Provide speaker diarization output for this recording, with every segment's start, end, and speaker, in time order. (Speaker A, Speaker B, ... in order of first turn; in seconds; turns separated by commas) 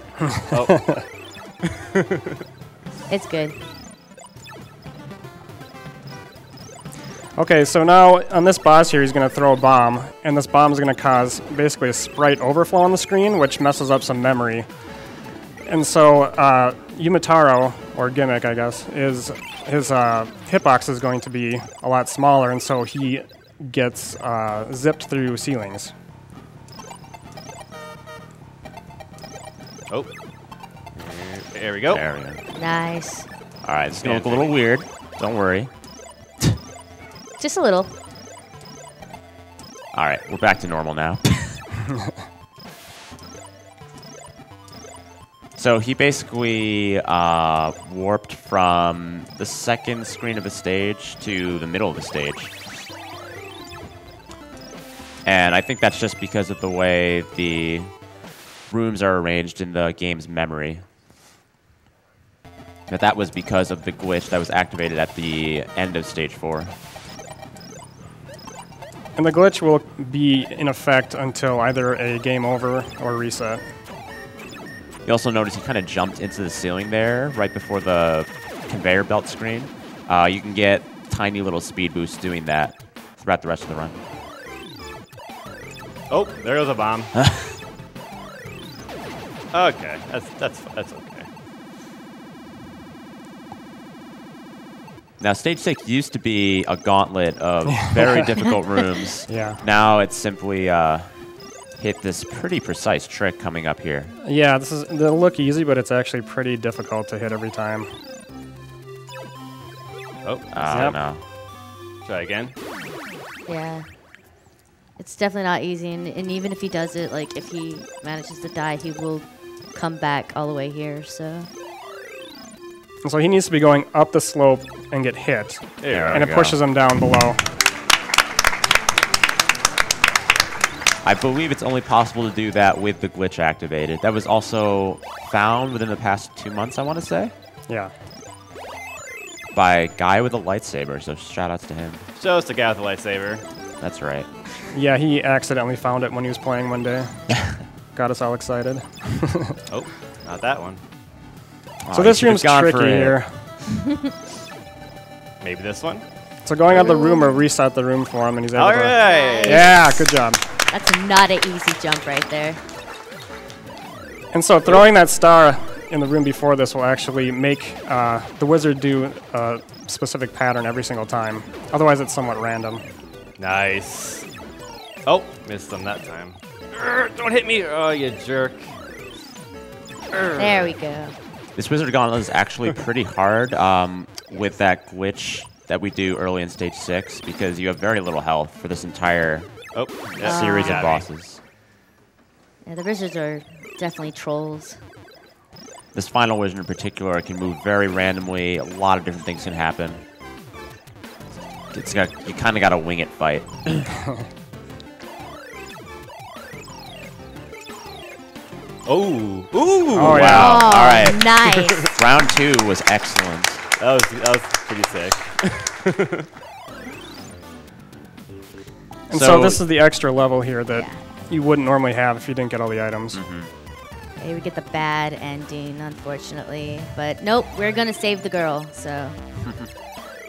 Speaker A: 0.5-0.9, Speaker B: 0.5-1.0, Speaker C: 3.1-3.6, Speaker B: 7.3-14.8, Speaker B: 15.6-25.9, Speaker A: 30.9-32.0, Speaker D: 31.9-32.4, Speaker C: 32.5-33.3, Speaker D: 33.6-36.4, Speaker A: 33.9-34.6, Speaker C: 37.4-38.0, Speaker D: 39.9-41.6, Speaker D: 45.6-52.5, Speaker D: 55.2-60.8, Speaker D: 62.9-66.7, Speaker B: 69.1-73.6, Speaker D: 75.0-84.0, Speaker A: 86.1-87.1, Speaker D: 87.2-87.6, Speaker A: 89.5-91.3, Speaker D: 95.2-104.1, Speaker B: 97.7-98.0, Speaker B: 99.3-99.6, Speaker B: 104.2-107.9, Speaker A: 110.2-110.5, Speaker D: 110.5-111.2, Speaker B: 110.7-111.0, Speaker A: 112.0-112.5, Speaker C: 113.5-114.2, Speaker C: 115.0-121.5, Speaker B: 123.0-127.4, Speaker A: 125.8-126.3, Speaker D: 125.9-126.6, Speaker D: 131.0-137.3, Speaker B: 137.7-137.9, Speaker D: 139.5-142.0, Speaker A: 142.2-143.4, Speaker D: 143.8-144.3, Speaker B: 144.7-149.6, Speaker A: 149.7-150.8, Speaker D: 151.8-153.2, Speaker B: 151.9-153.5, Speaker A: 155.4-156.0, Speaker B: 156.4-160.4, Speaker C: 156.7-157.4, Speaker A: 158.5-159.6, Speaker C: 159.0-162.6, Speaker B: 164.3-172.8, Speaker A: 173.4-174.3, Speaker A: 175.0-178.7, Speaker A: 180.1-180.8, Speaker C: 180.4-181.1, Speaker D: 181.5-191.4, Speaker A: 189.7-191.1, Speaker C: 190.2-190.9, Speaker C: 192.6-194.8, Speaker D: 195.9-200.0, Speaker D: 201.7-203.9, Speaker A: 208.8-210.4, Speaker B: 209.9-210.7, Speaker D: 210.0-213.6, Speaker C: 210.3-211.9, Speaker A: 213.8-216.2, Speaker B: 219.1-223.2, Speaker D: 219.1-219.6, Speaker C: 220.7-221.0, Speaker D: 223.1-223.5, Speaker C: 224.2-229.3